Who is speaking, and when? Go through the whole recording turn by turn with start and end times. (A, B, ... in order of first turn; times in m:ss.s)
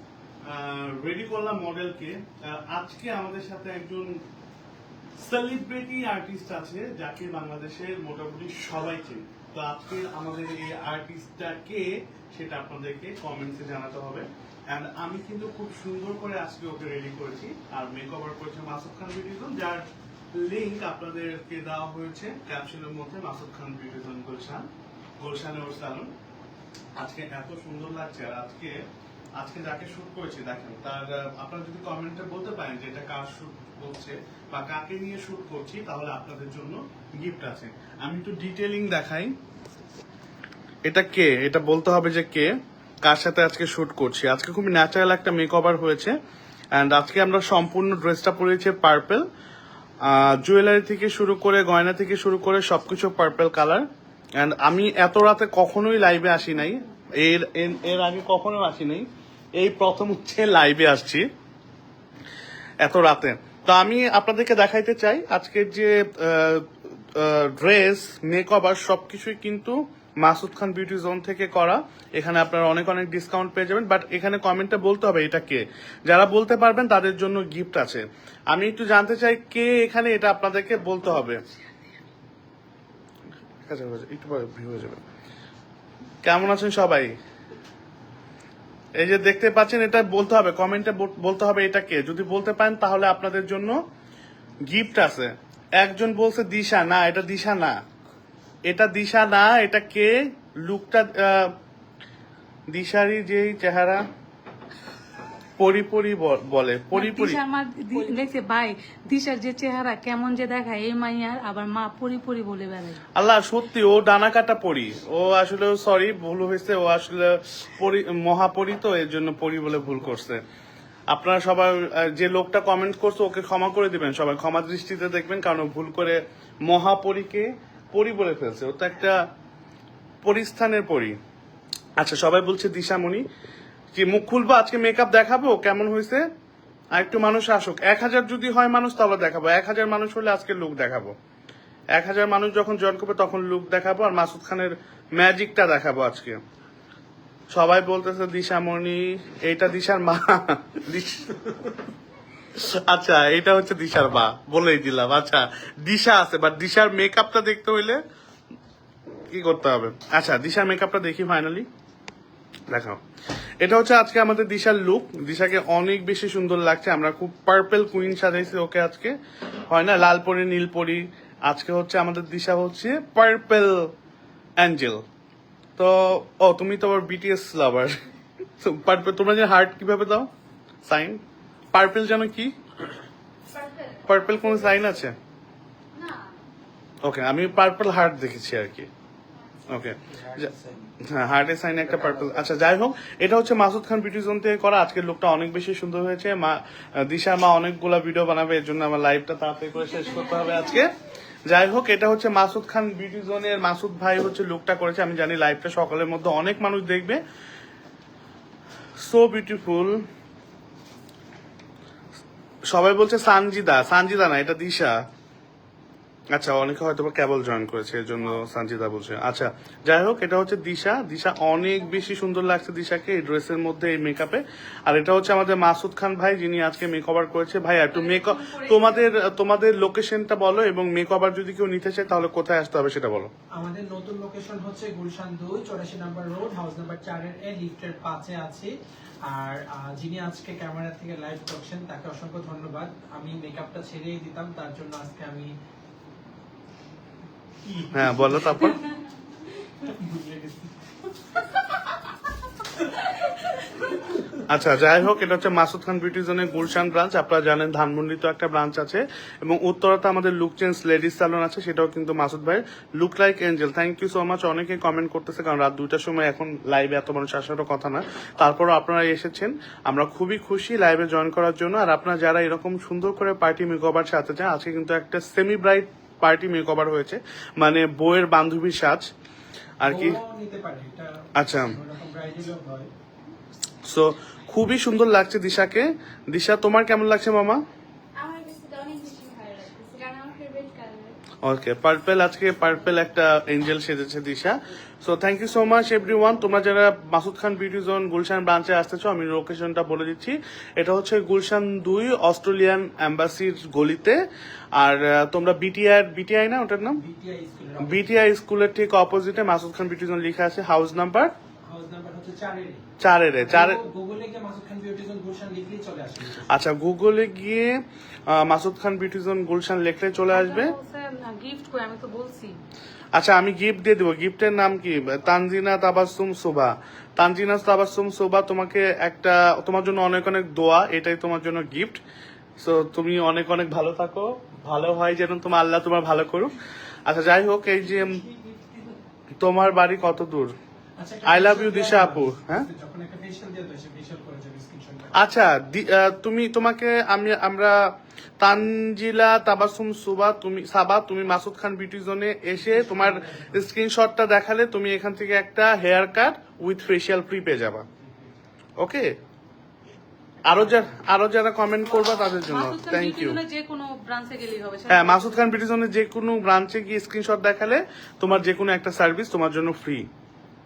0:00.4-0:04.1 A
0:05.2-0:24.7 A
0:25.2-0:26.1 A
0:27.0-0:28.8 A
0:29.4-0:39.3 A
0:40.8-0:42.5 A
0:43.0-0:46.1 A
0:46.7-0:49.2 A
0:50.0-0:53.8 A
0:54.4-1:01.3 A
1:02.8-1:21.4 A
1:23.6-1:25.0 A
1:26.2-1:27.1 A
1:29.0-1:33.8 A
1:34.6-1:37.8 A
1:38.7-1:41.5 A
1:42.7-1:44.0 A
1:45.6-1:47.4 A
1:46.9-1:53.0 B
1:53.1-2:00.4 A
2:01.1-2:09.2 A
2:10.2-2:11.2 A
2:12.0-2:13.2 A
2:13.9-2:16.2 A
2:16.9-2:21.1 A
2:22.0-2:26.4 A
2:27.5-2:31.7 A
2:32.5-2:38.0 A
2:39.3-2:41.7 A
2:42.7-2:43.0 A
2:43.6-2:49.2 A
2:49.7-2:53.9 A
2:54.6-2:55.0 A
2:55.8-2:58.0 A
2:58.6-3:00.3 A
3:00.8-3:02.6 A
3:03.5-3:05.0 C
3:04.0-3:05.1 A
3:05.9-3:06.4 C
3:07.0-3:08.9 A
3:09.4-3:09.6 C
3:09.7-3:10.5 A
3:10.1-3:10.8 D
3:11.0-3:20.9 A
3:11.9-3:12.4 D
3:21.5-3:27.2 A
3:29.0-3:30.0 A
3:32.7-3:34.9 A
3:36.3-3:53.3 A
3:47.9-3:49.1 B
3:53.6-3:58.7 D
3:59.2-4:05.5 D
4:07.6-4:08.9 D
4:07.9-4:08.8 A
4:09.8-4:10.8 D
4:12.8-4:13.1 D
4:13.7-4:14.4 D
4:14.5-4:39.1 A
4:39.8-4:40.2 A
4:39.8-4:42.9 D
4:41.3-4:41.8 A
4:43.8-4:47.6 A
4:48.1-4:51.2 C
4:51.4-5:04.2 A
5:04.7-5:07.0 A
5:06.9-5:08.2 D
5:07.8-5:11.3 A
5:11.7-5:12.8 D
5:13.0-5:13.8 A
5:13.4-5:16.5 D
5:16.5-5:20.8 A
5:20.3-5:22.6 B
5:23.1-5:32.0 A
5:32.6-5:38.2 A
5:38.2-5:38.8 D
5:39.4-5:40.5 A
5:41.0-5:45.4 D
5:41.2-5:42.7 A
5:45.1-5:57.8 A
5:52.6-5:53.7 D
5:58.0-5:58.3 D
5:58.8-5:59.1 A
6:00.4-6:03.4 A
6:01.9-6:05.4 B
6:04.9-6:10.0 A